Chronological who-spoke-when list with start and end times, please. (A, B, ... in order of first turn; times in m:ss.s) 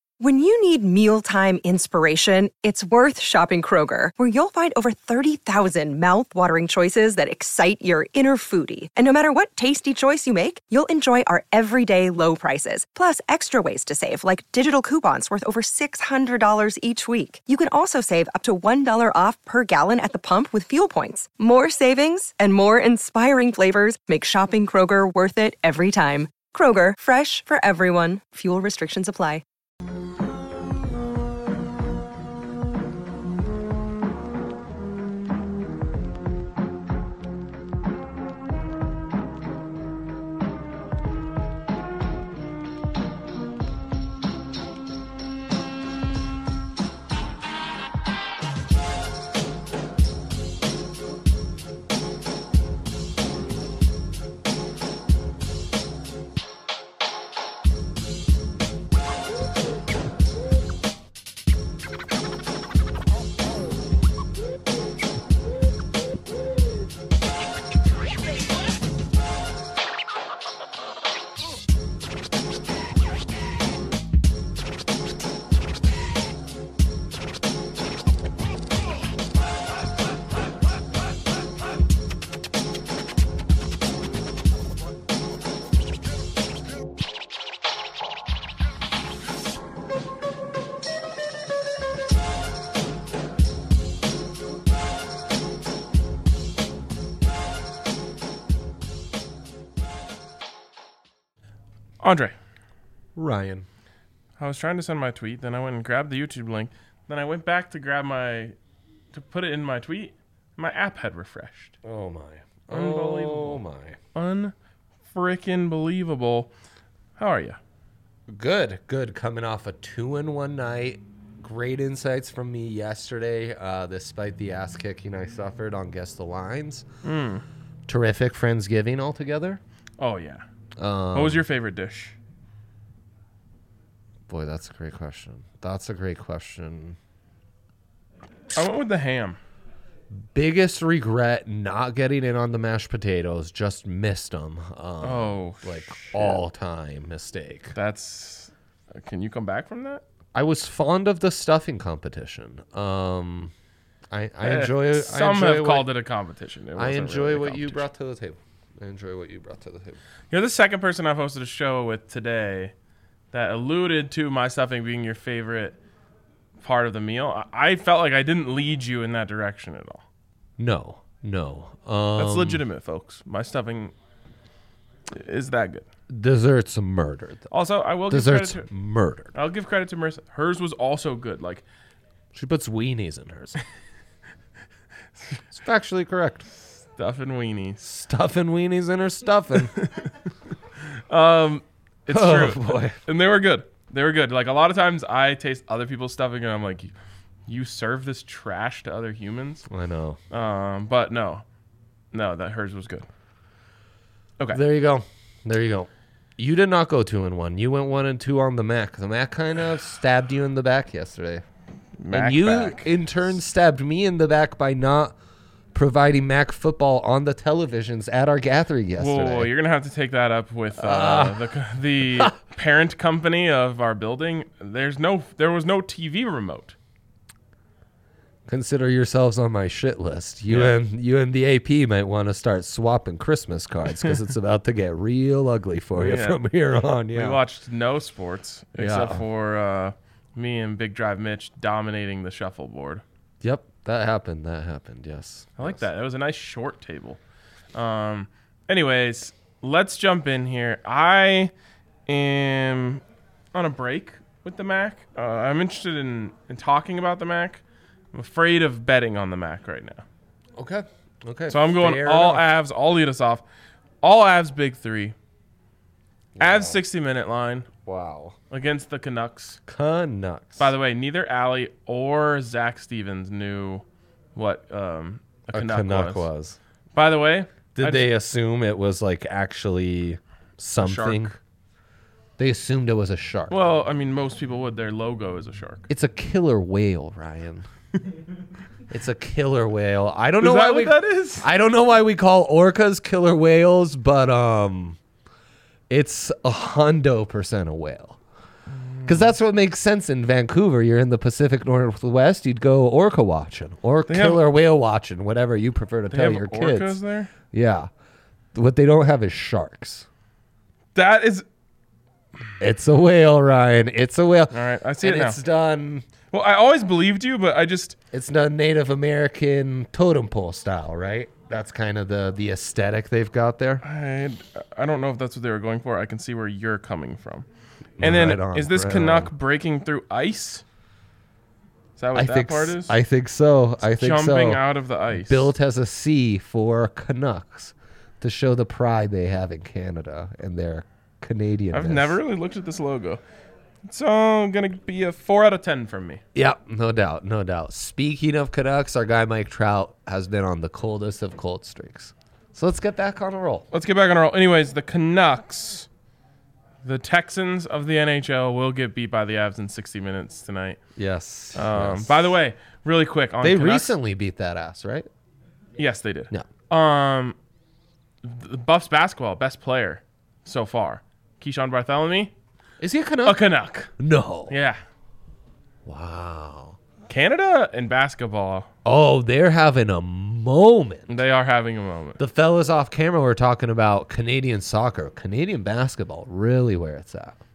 0:00.2-0:29.4 A
1:42.0-1:42.3 B
1:43.2-1:43.7 C
1:44.4-1:48.5 B
1:49.1-1:51.7 B
1:51.8-1:54.0 C
1:52.7-1:53.6 B
1:54.1-1:54.5 B
1:55.1-1:56.5 B
1:57.2-1:57.6 B
1:58.3-2:06.8 C
2:07.0-2:07.4 B
2:07.9-2:09.6 C
2:10.0-2:10.4 B
2:10.8-2:11.4 C
2:11.1-2:12.1 B
2:14.3-2:17.0 C
2:18.5-2:19.4 B
2:20.1-2:27.7 C
2:25.0-2:26.4 B
2:27.7-2:30.0 B
2:30.3-2:33.5 C
2:34.1-2:35.9 C
2:34.4-2:37.8 B
2:36.8-2:40.0 C
2:40.3-2:42.7 B
2:43.3-2:45.8 B
2:46.6-2:50.0 B
2:50.6-2:52.6 C
2:52.2-2:53.9 B
2:55.1-2:55.8 B
2:56.1-2:57.4 C
2:57.5-2:58.6 B
2:58.1-2:59.3 C
2:59.3-3:01.6 B
3:02.3-3:03.6 C
3:05.5-3:06.5 C
3:07.0-3:07.8 B
3:07.8-3:09.7 C
3:09.8-3:10.1 B
3:10.9-3:16.9 B
3:12.1-3:13.0 C
3:17.5-3:19.7 B
3:19.7-3:20.2 C
3:20.3-3:21.4 B
3:22.1-3:23.1 B
3:24.5-3:31.4 C
3:32.0-3:33.0 B
3:32.1-3:35.1 C
3:35.7-3:39.5 C
3:39.0-3:46.8 B
3:40.8-3:41.5 C
3:42.0-3:42.3 C
3:48.5-3:57.4 C
3:50.5-3:50.7 B
3:56.0-3:56.4 B
3:57.1-4:03.0 B
3:58.8-3:59.2 C
4:03.4-4:05.8 C
4:05.6-4:07.2 B
4:07.7-4:11.5 B
4:12.1-4:13.0 B
4:13.5-4:17.6 B
4:18.1-4:20.0 B
4:20.6-4:22.4 C
4:21.5-4:23.4 B
4:24.0-4:25.1 B
4:26.4-4:26.8 C
4:26.4-4:27.7 B
4:27.8-4:28.4 C
4:28.5-4:29.6 B
4:29.7-4:30.7 C
4:30.6-4:33.8 B
4:34.4-4:36.3 B
4:35.5-4:36.6 C
4:36.9-4:38.1 B
4:37.7-4:41.3 C
4:40.8-4:41.3 B
4:42.4-4:43.6 C
4:43.5-4:45.8 B
4:45.9-4:47.6 C
4:48.9-4:55.0 C
4:50.4-4:51.5 B
4:55.9-4:58.2 C
4:58.8-4:59.1 B
4:59.0-5:07.0 C
5:04.1-5:04.4 B
5:06.1-5:07.3 B
5:07.5-5:07.9 C
5:08.5-5:10.1 C
5:10.9-5:11.4 B
5:12.6-5:16.1 C
5:14.5-5:15.4 B
5:16.3-5:18.0 B
5:18.1-5:23.8 C
5:23.8-5:27.4 B
5:28.0-5:29.3 C
5:28.0-5:30.6 B
5:32.0-5:33.0 B
5:32.1-5:42.2 C
5:34.0-5:35.5 B
5:41.7-5:43.2 B
5:43.8-5:46.2 B
5:46.3-5:53.7 C
5:53.7-5:55.9 B
5:56.8-6:00.8 B
6:01.0-6:02.3 C
6:01.5-6:03.9 B
6:03.4-6:05.1 C
6:05.8-6:07.4 B
6:08.2-6:12.3 B
6:12.8-6:13.4 C
6:13.2-6:13.9 B
6:14.0-6:14.5 C
6:14.5-6:14.8 B
6:15.8-6:16.8 C
6:17.1-6:18.7 B
6:18.8-6:21.2 C
6:21.1-6:22.2 B
6:22.2-6:27.4 C